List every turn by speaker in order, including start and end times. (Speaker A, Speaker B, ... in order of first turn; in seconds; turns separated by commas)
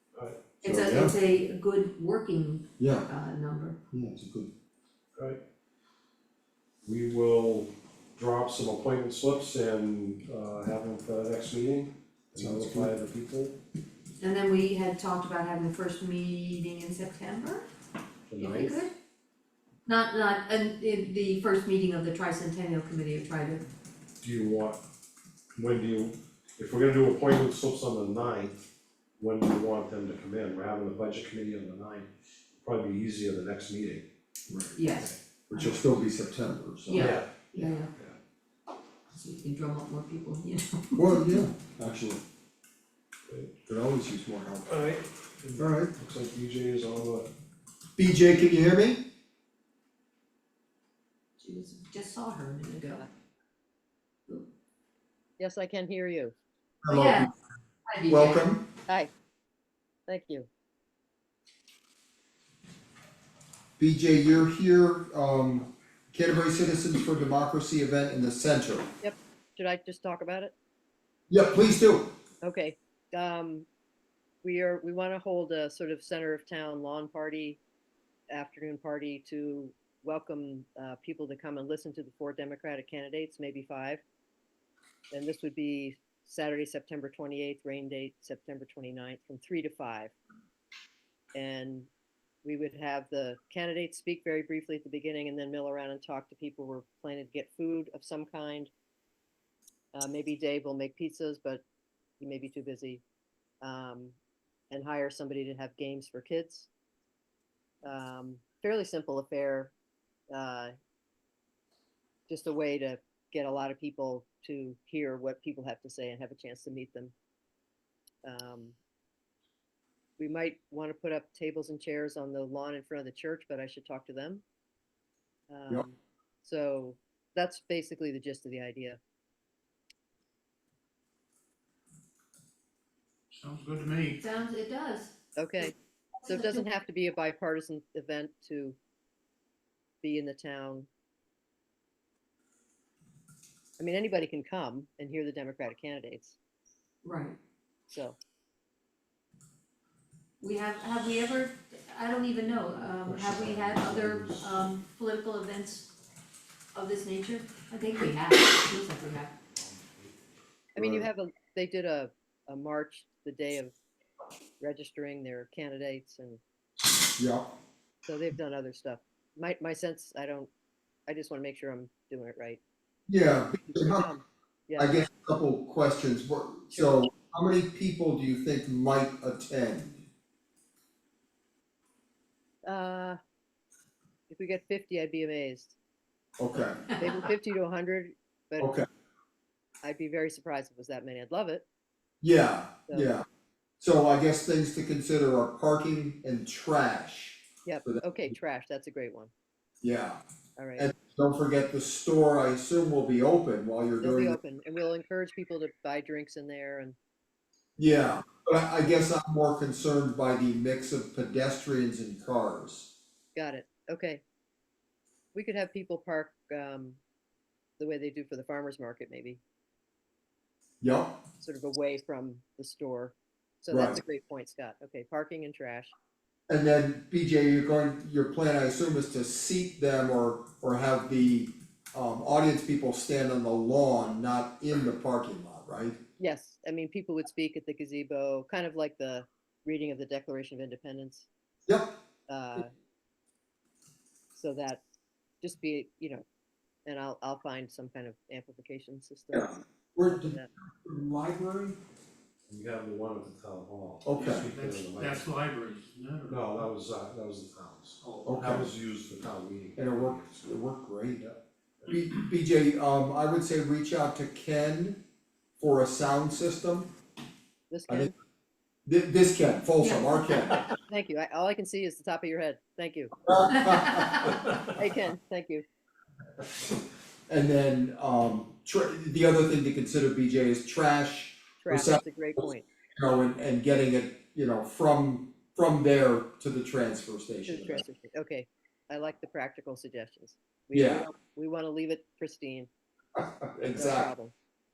Speaker A: 0.1-0.5, Speaker B: 0.6-3.8, Speaker C: 0.6-1.1, Speaker C: 2.8-3.0, Speaker C: 3.9-4.5, Speaker A: 6.8-13.6, Speaker C: 12.3-12.9, Speaker B: 14.2-17.6, Speaker A: 18.3-18.8, Speaker B: 18.4-18.9, Speaker B: 19.9-23.6, Speaker A: 24.2-24.8, Speaker A: 25.6-28.6, Speaker A: 29.2-34.0, Speaker C: 34.5-34.8, Speaker B: 34.7-35.8, Speaker C: 35.5-37.7, Speaker B: 36.9-37.9, Speaker A: 36.9-37.3, Speaker B: 39.1-41.5, Speaker C: 41.0-42.2, Speaker A: 43.3-43.5, Speaker C: 43.7-44.8, Speaker A: 44.7-47.3, Speaker C: 45.5-45.9, Speaker C: 48.0-49.0, Speaker B: 51.4-53.0, Speaker D: 52.8-53.1, Speaker D: 55.4-56.3, Speaker C: 56.8-57.3, Speaker B: 56.9-57.3, Speaker B: 57.9-58.4, Speaker C: 58.1-58.6, Speaker D: 60.1-60.5, Speaker C: 63.8-68.9, Speaker D: 69.0-70.5, Speaker C: 71.3-72.1, Speaker D: 72.4-73.7, Speaker D: 74.4-77.6, Speaker D: 78.3-84.0, Speaker D: 85.1-90.1, Speaker D: 91.3-91.9, Speaker D: 92.4-98.7, Speaker D: 99.9-101.6, Speaker D: 102.2-103.0, Speaker D: 103.6-104.2, Speaker D: 104.7-106.7, Speaker D: 107.8-109.7, Speaker D: 110.3-110.7, Speaker D: 112.3-117.1, Speaker D: 118.2-118.8, Speaker D: 120.2-124.4, Speaker D: 125.5-129.0, Speaker E: 133.3-134.2, Speaker B: 134.1-135.7, Speaker D: 135.4-135.7, Speaker B: 136.2-136.7, Speaker D: 136.3-138.8, Speaker D: 140.0-140.9, Speaker D: 143.8-146.4, Speaker B: 147.0-147.3, Speaker D: 147.9-148.2, Speaker B: 150.4-155.9, Speaker A: 152.9-154.6, Speaker B: 156.7-159.3, Speaker A: 159.4-160.1, Speaker D: 160.7-163.7, Speaker C: 160.8-161.1, Speaker D: 164.6-166.4, Speaker C: 167.2-167.4, Speaker D: 168.1-170.5, Speaker D: 171.1-172.6, Speaker C: 173.1-174.1, Speaker D: 173.5-175.0, Speaker C: 174.8-180.0, Speaker D: 176.7-177.1, Speaker D: 182.6-183.2, Speaker D: 184.3-185.8, Speaker C: 186.4-186.8, Speaker D: 187.0-188.7, Speaker C: 188.6-188.8, Speaker D: 189.8-191.7, Speaker C: 192.2-193.2, Speaker C: 193.8-198.3, Speaker D: 197.6-199.3, Speaker C: 199.8-200.2, Speaker D: 200.6-200.9, Speaker C: 200.8-204.4, Speaker D: 204.0-207.0, Speaker C: 207.8-212.9, Speaker D: 213.3-214.2, Speaker D: 215.3-217.0, Speaker D: 217.8-219.4, Speaker C: 220.8-221.1, Speaker D: 221.4-225.9, Speaker C: 223.7-224.0, Speaker C: 226.5-236.0, Speaker D: 236.2-241.3, Speaker C: 241.7-241.9, Speaker D: 242.3-242.7, Speaker D: 244.3-244.8, Speaker D: 245.4-246.2, Speaker D: 246.8-250.5, Speaker C: 249.3-251.8, Speaker A: 252.5-255.3, Speaker C: 254.0-254.5, Speaker E: 254.1-256.7, Speaker A: 256.3-260.6, Speaker E: 258.0-258.3, Speaker C: 258.2-258.7, Speaker C: 259.8-261.3, Speaker C: 261.9-265.0, Speaker C: 265.6-266.9, Speaker D: 267.7-268.1, Speaker C: 268.9-270.6, Speaker B: 269.8-270.1, Speaker D: 270.9-273.1, Speaker C: 273.2-274.3, Speaker B: 273.9-274.3, Speaker D: 274.7-275.6, Speaker C: 277.3-282.4, Speaker D: 281.6-282.6, Speaker C: 283.0-287.8, Speaker D: 287.4-292.7, Speaker C: 290.7-291.1, Speaker C: 293.1-294.1, Speaker D: 293.7-294.3